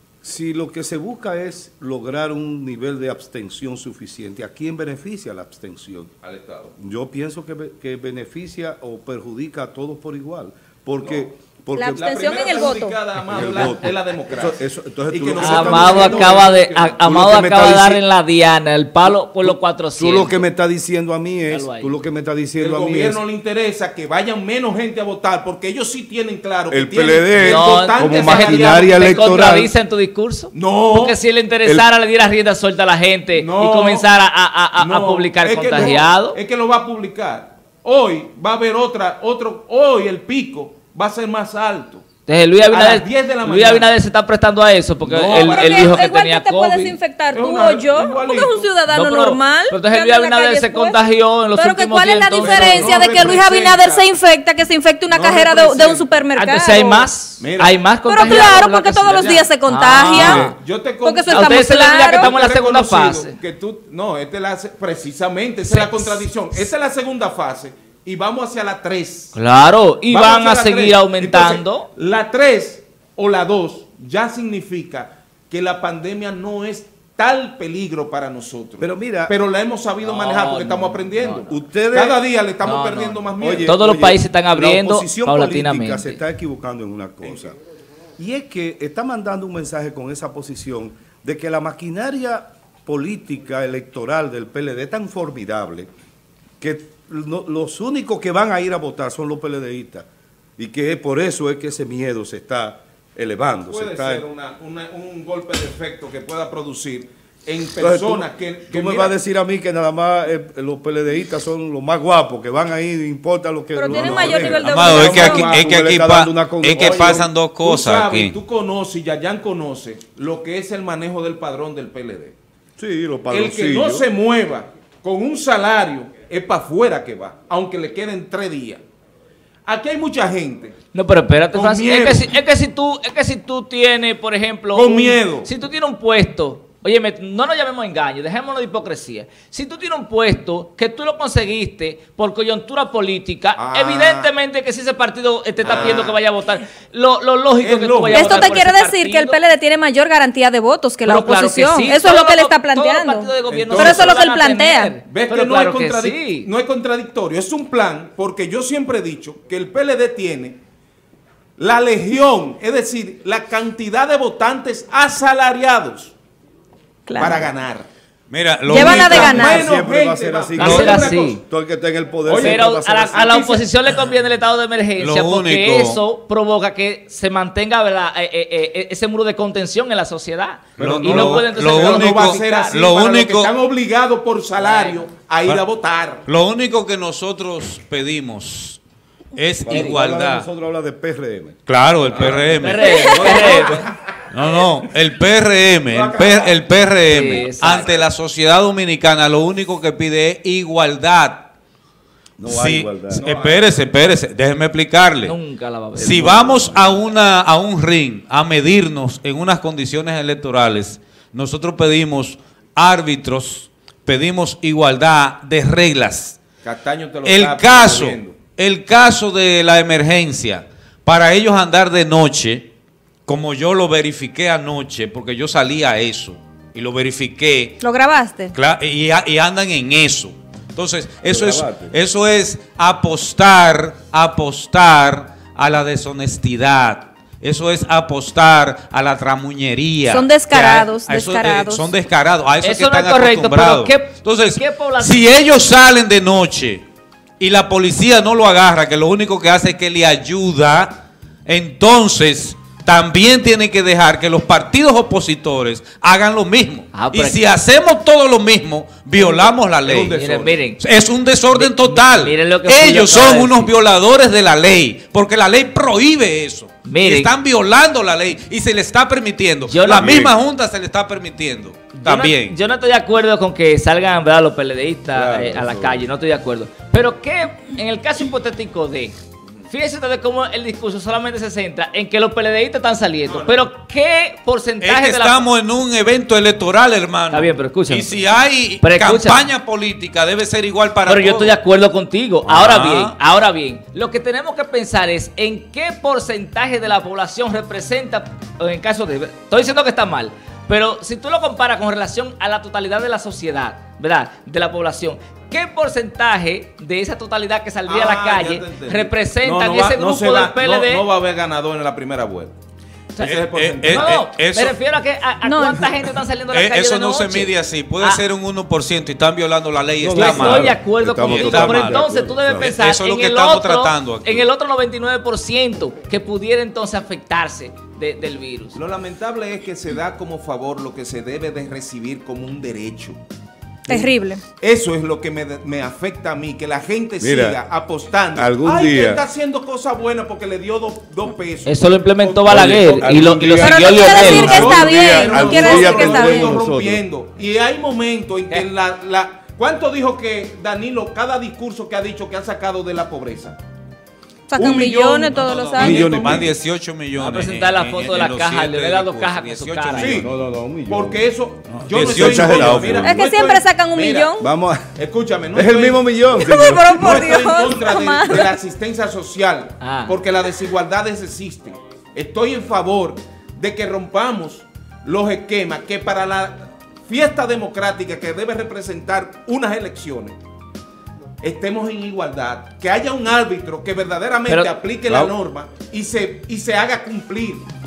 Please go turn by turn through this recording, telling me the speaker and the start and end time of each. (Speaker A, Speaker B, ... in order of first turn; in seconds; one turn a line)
Speaker A: 0.2-6.1
Speaker B: 6.2-6.7
Speaker A: 6.8-12.4
Speaker C: 11.7-13.0
Speaker B: 11.9-14.6
Speaker A: 13.3-18.0
Speaker B: 15.1-16.9
Speaker D: 15.4-20.4
Speaker A: 19.1-23.2
Speaker D: 21.5-21.9
Speaker B: 22.6-29.3
Speaker A: 26.7-29.7
Speaker D: 27.4-36.4
Speaker B: 30.5-31.2
Speaker B: 33.3-34.1
Speaker B: 34.8-42.0
Speaker D: 42.3-47.0
Speaker B: 42.7-43.9
Speaker B: 45.0-46.1
Speaker C: 45.3-51.0
Speaker B: 47.3-48.6
Speaker D: 48.9-53.0
Speaker C: 51.5-57.1
Speaker B: 52.3-54.0
Speaker B: 55.1-56.1
Speaker D: 56.3-60.6
Speaker B: 57.4-58.6
Speaker C: 58.1-60.5
Speaker B: 60.2-69.3
Speaker C: 61.0-62.4
Speaker D: 61.3-63.3
Speaker D: 65.6-66.6
Speaker D: 69.3-71.9
Speaker B: 70.1-83.8
Speaker A: 78.8-79.3
Speaker D: 80.0-81.5
Speaker A: 81.5-82.2
Speaker D: 82.6-86.2
Speaker A: 83.4-87.6
Speaker A: 88.2-95.9
Speaker A: 96.6-100.1
Speaker A: 100.6-104.2
Speaker B: 103.7-109.1
Speaker A: 107.8-117.2
Speaker C: 113.7-115.5
Speaker B: 113.9-115.7
Speaker E: 114.6-118.3
Speaker B: 116.7-122.3
Speaker A: 122.8-124.1
Speaker B: 123.3-128.8
Speaker B: 129.7-130.7
Speaker D: 130.9-149.4
Speaker B: 131.5-132.3
Speaker B: 134.7-135.5
Speaker B: 143.6-144.3
Speaker B: 145.6-146.2
Speaker B: 147.6-148.6
Speaker C: 148.1-155.0
Speaker D: 151.1-156.5
Speaker B: 153.5-154.2
Speaker B: 155.0-160.6
Speaker B: 161.6-166.1
Speaker C: 167.1-167.5
Speaker B: 167.2-167.9
Speaker E: 168.3-169.7
Speaker B: 168.7-171.4
Speaker C: 168.7-169.6
Speaker A: 169.1-173.3
Speaker D: 170.6-171.4
Speaker B: 172.2-173.6
Speaker D: 172.3-182.8
Speaker E: 175.0-176.0
Speaker A: 180.8-181.4
Speaker E: 180.8-183.5
Speaker B: 181.0-186.2
Speaker D: 184.6-185.0
Speaker E: 186.3-188.8
Speaker E: 189.3-190.5
Speaker A: 189.6-191.6
Speaker D: 189.7-190.0
Speaker E: 191.7-192.8
Speaker B: 192.1-192.6
Speaker A: 192.1-193.8
Speaker D: 192.6-193.8
Speaker C: 192.9-193.4
Speaker B: 193.1-193.8
Speaker E: 194.3-201.5
Speaker B: 195.9-196.7
Speaker D: 197.1-197.9
Speaker B: 197.3-198.0
Speaker A: 202.4-203.2
Speaker E: 202.5-205.4
Speaker B: 203.2-203.7
Speaker D: 205.2-206.9
Speaker E: 206.0-216.4
Speaker A: 206.0-206.9
Speaker B: 216.6-218.4
Speaker E: 217.2-222.7
Speaker E: 223.2-227.8
Speaker C: 227.8-228.6
Speaker E: 228.5-246.8
Speaker A: 231.2-231.9
Speaker C: 240.1-241.9
Speaker D: 242.6-245.2
Speaker E: 247.4-260.2
Speaker D: 256.9-257.4
Speaker B: 259.1-260.6
Speaker D: 260.1-260.8
Speaker E: 260.8-272.6
Speaker D: 261.5-263.7
Speaker D: 266.8-267.3
Speaker D: 269.7-270.2
Speaker D: 271.9-279.2
Speaker A: 275.1-276.0
Speaker D: 279.7-285.5
Speaker B: 283.2-283.6
Speaker E: 284.8-291.6
Speaker D: 287.3-288.2
Speaker D: 288.8-289.4
Speaker D: 291.1-311.1
Speaker E: 292.4-293.2
Speaker B: 307.9-312.5
Speaker B: 313.2-314.2
Speaker E: 313.2-314.8
Speaker D: 313.9-318.2
Speaker C: 315.4-315.9
Speaker E: 316.5-324.5
Speaker A: 320.0-322.7
Speaker D: 320.1-328.8
Speaker B: 328.7-333.2
Speaker C: 333.9-334.4
Speaker B: 334.6-353.6
Speaker A: 337.2-337.6
Speaker A: 338.3-339.2
Speaker D: 341.6-344.7
Speaker A: 342.5-347.0
Speaker C: 343.6-346.6
Speaker C: 354.5-356.2
Speaker B: 354.6-356.5
Speaker E: 355.4-360.2
Speaker A: 355.8-356.5
Speaker D: 357.1-360.2
Speaker B: 359.9-360.3
Speaker A: 360.1-361.2
Speaker B: 360.9-364.3
Speaker E: 361.7-363.0
Speaker A: 361.9-363.2
Speaker C: 363.0-364.5
Speaker A: 364.4-364.9
Speaker B: 364.9-366.1
Speaker A: 365.5-367.3
Speaker C: 366.3-368.5
Speaker B: 366.9-380.4
Speaker D: 369.8-370.2
Speaker B: 381.4-387.6
Speaker D: 384.5-384.7
Speaker A: 385.1-385.3